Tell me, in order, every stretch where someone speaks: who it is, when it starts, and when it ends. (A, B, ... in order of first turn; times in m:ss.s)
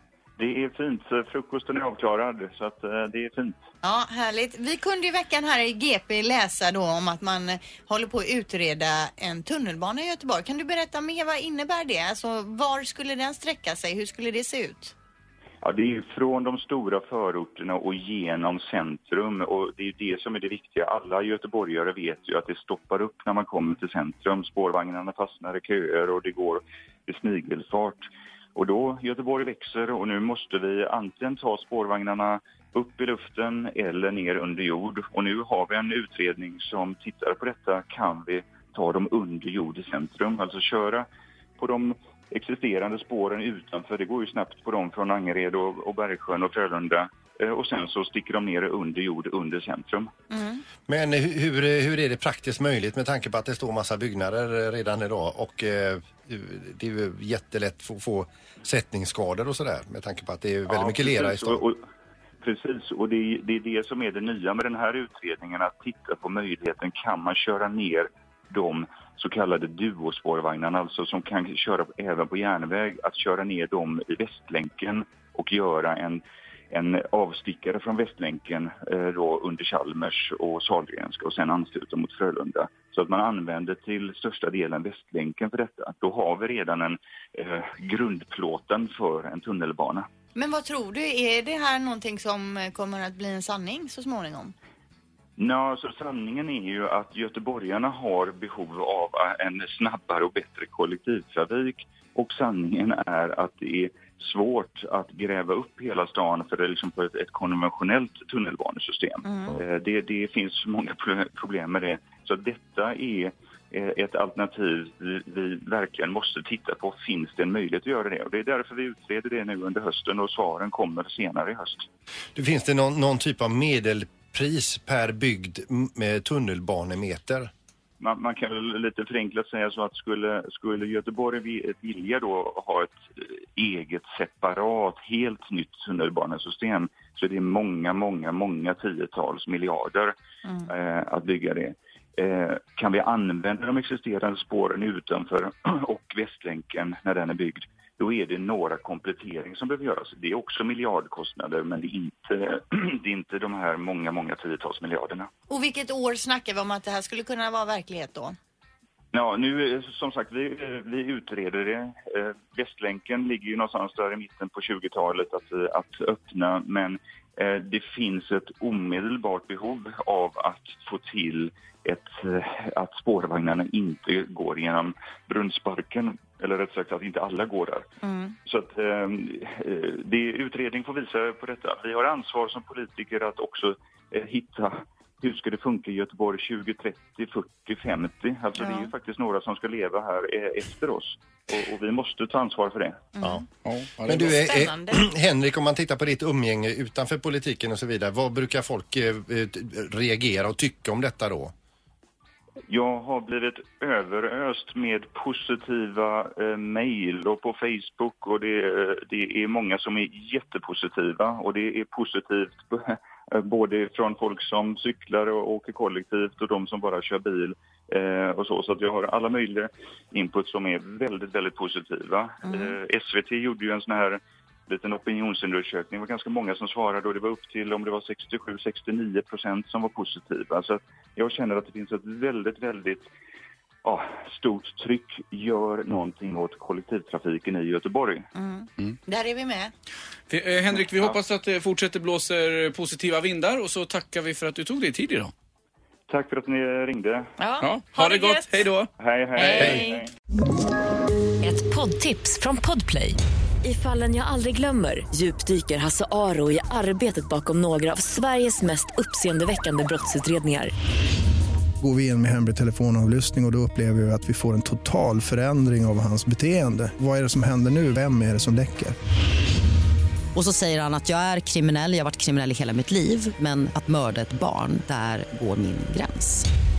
0:00.4-0:03.6 A
0:03.8-0:14.9 B
0:15.6-0:41.0 A
0:41.6-0:50.1 A
0:50.3-0:50.6 B
0:50.9-1:01.6 C
1:00.7-1:01.8 A
1:02.4-1:30.1 A
1:30.3-1:34.5 B
1:35.4-2:01.9 A
2:02.4-2:07.5 C
2:08.0-2:20.1 A
2:20.6-2:35.3 A
2:35.5-2:38.4 B
2:39.1-2:57.8 A
2:58.0-2:58.3 B
2:58.4-3:13.0 A
3:08.6-3:08.9 B
3:13.6-3:14.4 D
3:14.0-3:21.5 C
3:14.3-3:15.0 B
3:22.7-3:53.1 A
3:53.8-3:58.3 A
3:58.3-3:59.7 B
4:00.3-4:05.3 D
4:06.1-4:07.3 A
4:07.4-4:08.4 B
4:07.6-4:09.8 D
4:09.0-4:10.1 A
4:09.4-4:10.0 B
4:11.4-4:20.7 E
4:21.8-4:28.9 F
4:30.3-4:36.5 G